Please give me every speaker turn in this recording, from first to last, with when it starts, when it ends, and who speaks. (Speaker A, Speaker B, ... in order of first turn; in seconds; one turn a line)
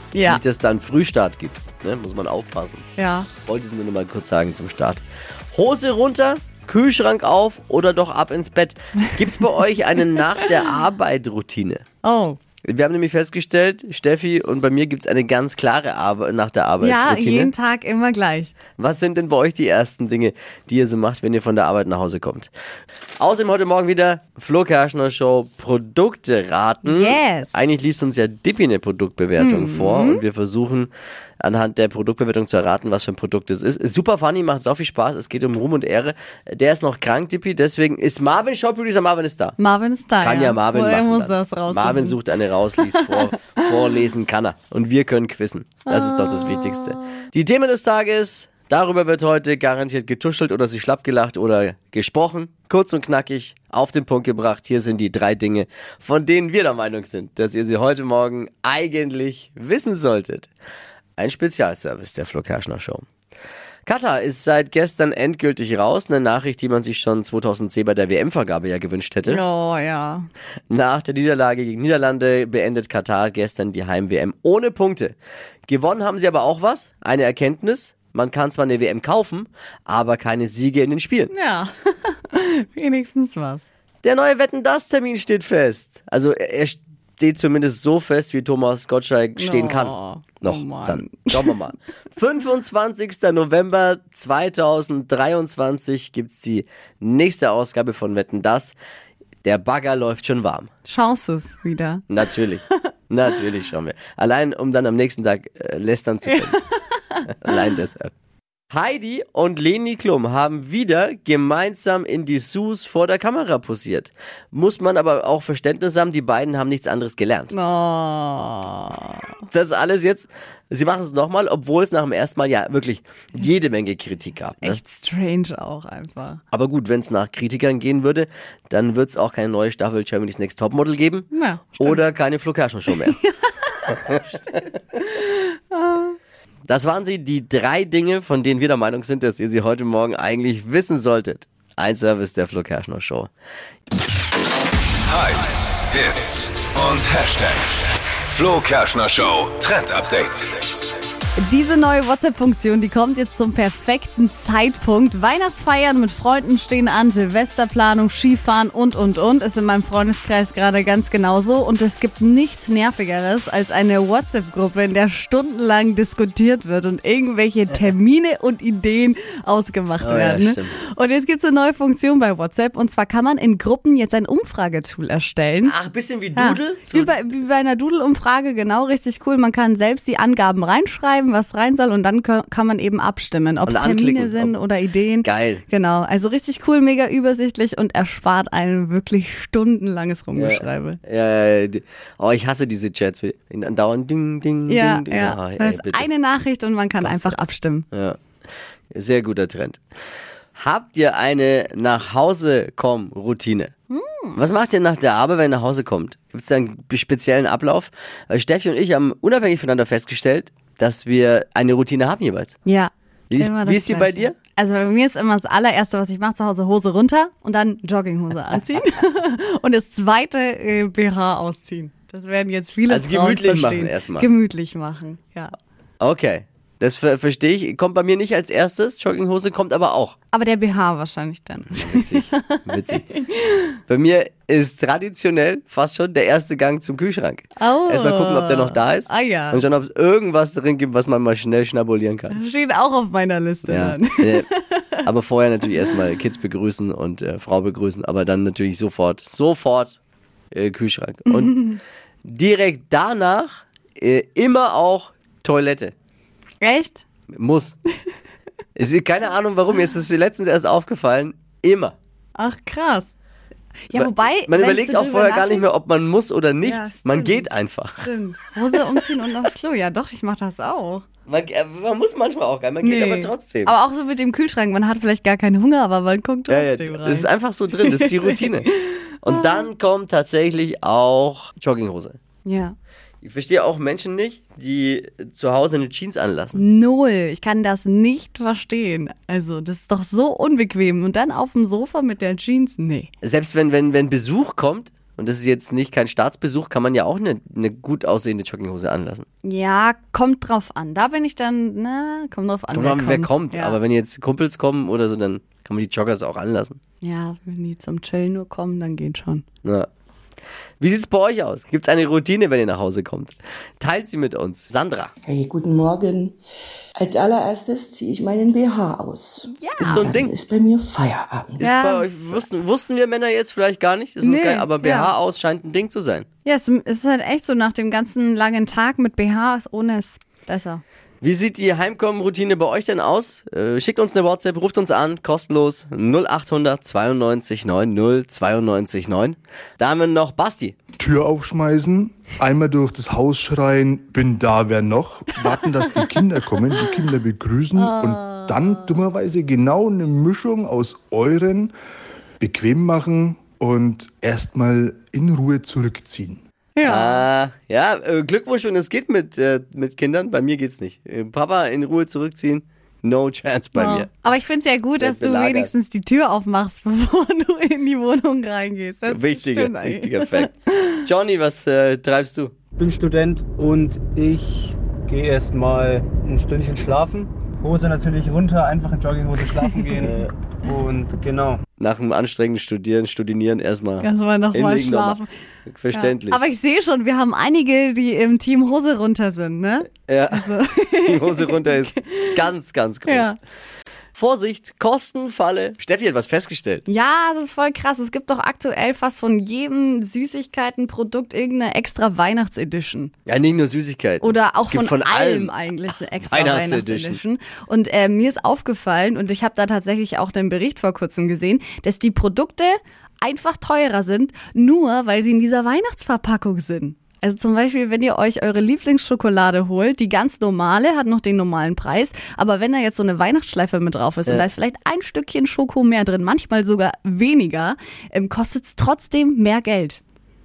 Speaker A: 0.1-0.4
Speaker B: 0.2-2.9
Speaker A: 3.0-3.3
Speaker B: 3.5-5.0
Speaker B: 5.5-11.8
Speaker A: 12.0-12.4
Speaker B: 12.6-17.5
Speaker A: 16.8-18.5
Speaker B: 18.8-22.5
Speaker B: 23.2-39.6
Speaker A: 26.8-27.5
Speaker A: 29.4-30.2
Speaker A: 39.6-42.2
Speaker B: 40.2-60.5
Speaker A: 42.8-43.6
Speaker A: 45.9-47.1
Speaker B: 61.2-63.0
Speaker B: 63.9-69.4
Speaker A: 69.2-70.3
Speaker B: 70.7-81.3
Speaker A: 81.3-83.7
Speaker B: 84.0-98.8
Speaker A: 89.4-91.5
Speaker B: 99.4-100.7
Speaker A: 100.8-102.1
Speaker B: 102.1-106.6
Speaker A: 106.4-107.3
Speaker B: 107.3-108.1
Speaker B: 108.7-117.5
Speaker A: 117.5-119.3
Speaker B: 119.5-124.8
Speaker A: 124.6-126.4
Speaker B: 126.5-133.2
Speaker A: 131.3-132.0
Speaker A: 133.0-136.2
Speaker B: 136.7-143.3
Speaker C: 145.1-150.5
Speaker A: 151.4-175.8
Speaker B: 170.0-170.7
Speaker B: 175.6-177.2
Speaker A: 176.3-191.0
Speaker B: 183.7-184.6
Speaker B: 185.2-185.6
Speaker B: 190.3-196.1
Speaker A: 194.7-197.9
Speaker B: 197.0-197.4
Speaker B: 197.9-198.2
Speaker B: 198.9-199.8
Speaker B: 200.6-203.7
Speaker A: 203.9-204.4
Speaker B: 204.3-212.6
Speaker A: 212.6-225.5
Speaker B: 213.3-214.3
Speaker B: 222.9-224.3
Speaker B: 226.0-230.2
Speaker A: 230.3-233.8
Speaker B: 231.8-233.0
Speaker B: 233.9-242.4
Speaker A: 237.6-239.6
Speaker A: 242.3-245.0
Speaker B: 243.7-244.5
Speaker B: 245.0-250.0
Speaker B: 250.5-251.7
Speaker B: 252.2-255.9
Speaker A: 256.6-257.0
Speaker B: 257.3-257.8
Speaker B: 258.8-261.9
Speaker A: 262.4-263.1
Speaker A: 263.9-265.6
Speaker B: 263.9-268.1
Speaker A: 266.6-271.0
Speaker B: 271.3-273.7
Speaker A: 272.8-279.6
Speaker B: 276.5-278.7
Speaker B: 279.2-282.2
Speaker A: 282.4-282.7
Speaker B: 283.2-286.6
Speaker A: 286.5-293.1
Speaker B: 293.2-299.2
Speaker A: 299.4-303.8
Speaker B: 302.7-306.8
Speaker A: 307.0-309.4
Speaker B: 310.8-315.1
Speaker D: 315.2-316.3
Speaker D: 316.9-321.7
Speaker A: 319.6-320.0
Speaker B: 319.8-320.4
Speaker B: 321.6-326.2
Speaker A: 321.6-322.4
Speaker A: 324.2-325.1
Speaker A: 326.4-330.8
Speaker B: 331.2-340.8
Speaker E: 341.0-351.7
Speaker A: 345.5-347.1
Speaker A: 347.8-349.0
Speaker E: 352.4-356.4
Speaker A: 356.8-357.2
Speaker B: 356.8-364.1
Speaker A: 363.7-371.0
Speaker B: 365.0-365.7
Speaker B: 369.1-370.5
Speaker B: 371.0-372.6
Speaker F: 372.8-381.6
Speaker A: 379.4-380.0
Speaker B: 380.0-380.3
Speaker B: 381.8-386.4
Speaker A: 384.0-385.3
Speaker A: 385.9-392.5
Speaker B: 390.1-393.4
Speaker A: 393.1-393.4
Speaker B: 394.1-396.8
Speaker A: 396.9-403.1
Speaker B: 403.3-405.5
Speaker A: 404.2-430.0
Speaker B: 406.3-407.2